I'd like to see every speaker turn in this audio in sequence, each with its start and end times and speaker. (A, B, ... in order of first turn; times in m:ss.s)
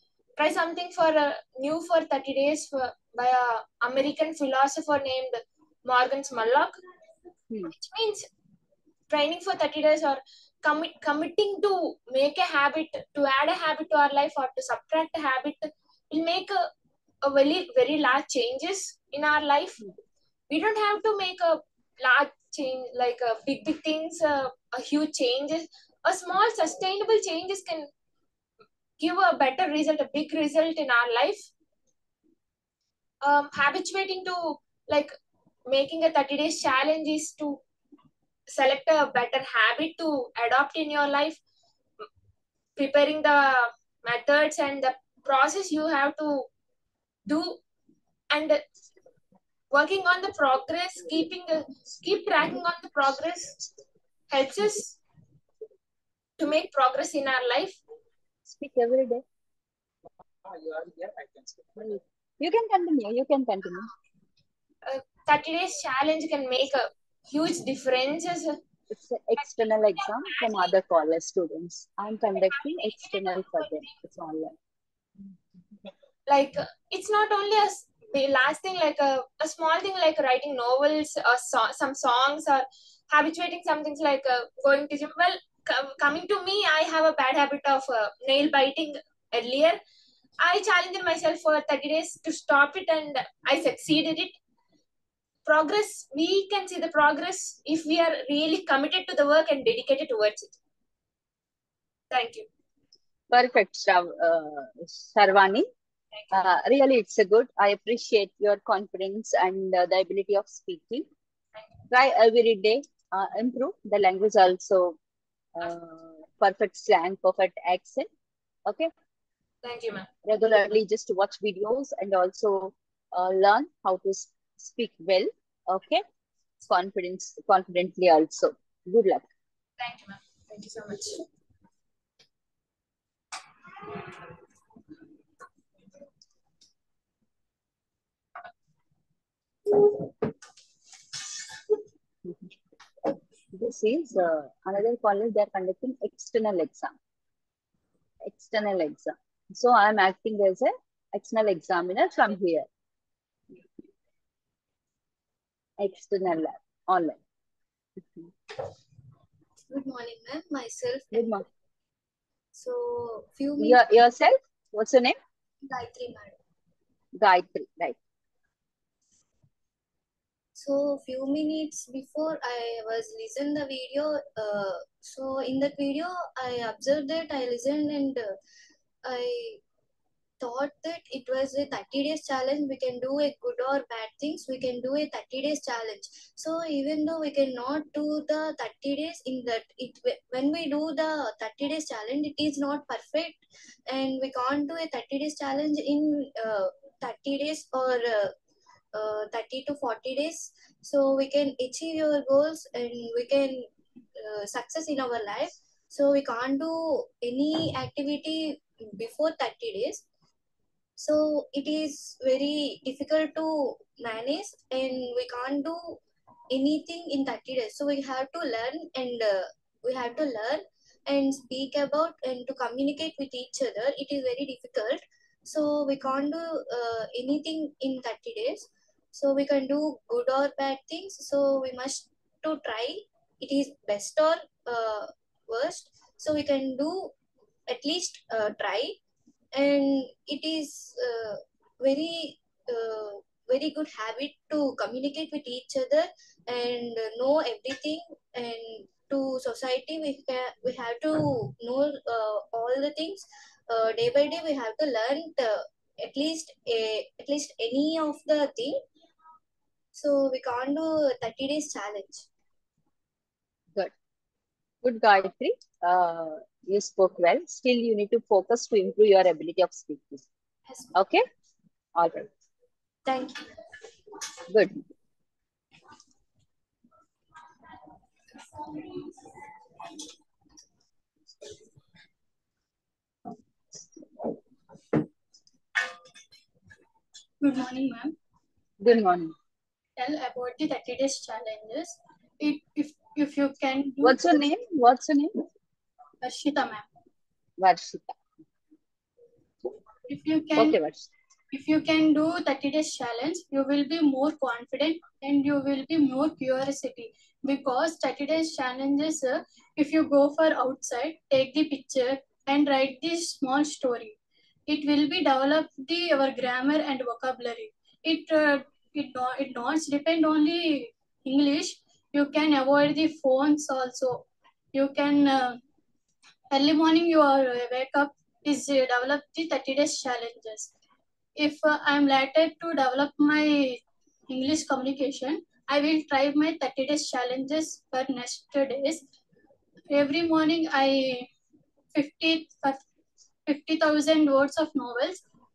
0:00.4-0:06.7 A
0:07.7-0:08.2 A
0:09.1-0:16.7 A
0:17.2-0:19.8 A
0:20.5-0:27.9 A
0:29.0-0:31.4 A
0:33.2-0:35.1 A
0:35.7-0:37.6 A
0:38.5-0:41.4 A
0:42.8-0:46.5 A
0:47.2-0:47.6 A
0:48.3-0:48.6 A
0:49.7-0:53.6 A
0:54.3-0:54.9 A
0:56.4-0:57.7 A
0:58.5-0:59.2 B
1:01.8-1:03.9 B
1:04.9-1:08.5 A
1:08.9-1:14.5 B
1:16.3-1:29.8 A
1:30.4-1:34.3 A
1:35.4-1:40.5 A
1:42.1-1:42.4 A
1:43.3-1:45.7 B
1:46.3-1:51.0 B
1:51.9-1:55.0 B
1:55.5-1:58.1 B
1:59.6-2:00.0 A
2:00.2-2:06.0 B
2:06.6-2:09.3 B
2:09.8-2:11.1 A
2:23.5-2:27.0 B
2:28.2-2:32.7 B
2:35.8-2:37.2 B
2:39.7-2:41.4 C
2:41.1-2:41.4 B
2:42.6-2:43.8 C
2:43.6-2:45.2 B
2:45.7-2:46.3 C
2:47.2-2:48.0 B
2:50.6-2:58.3 C
2:59.0-2:59.6 C
3:00.4-3:18.3 C
3:18.9-3:30.0 C
3:31.0-3:36.0 C
3:36.5-3:57.1 C
3:57.7-3:58.9 C
3:59.5-4:18.8 C
4:19.9-4:22.2 C
4:24.8-4:30.2 B
4:30.9-4:31.2 B
4:31.9-4:32.3 B
4:34.5-4:34.8 B
4:47.4-4:48.1 D
4:48.8-4:49.3 B
4:50.0-4:54.2 D
4:54.0-4:55.4 B
4:56.2-4:56.8 D
4:57.6-4:58.1 B
5:00.1-5:00.8 D
5:00.6-5:01.1 B
5:01.5-5:14.2 D
5:14.7-5:25.6 D
5:26.5-5:30.7 D
5:31.3-5:39.0 D
5:39.9-5:41.3 D
5:41.9-5:42.8 D
5:43.4-5:45.2 D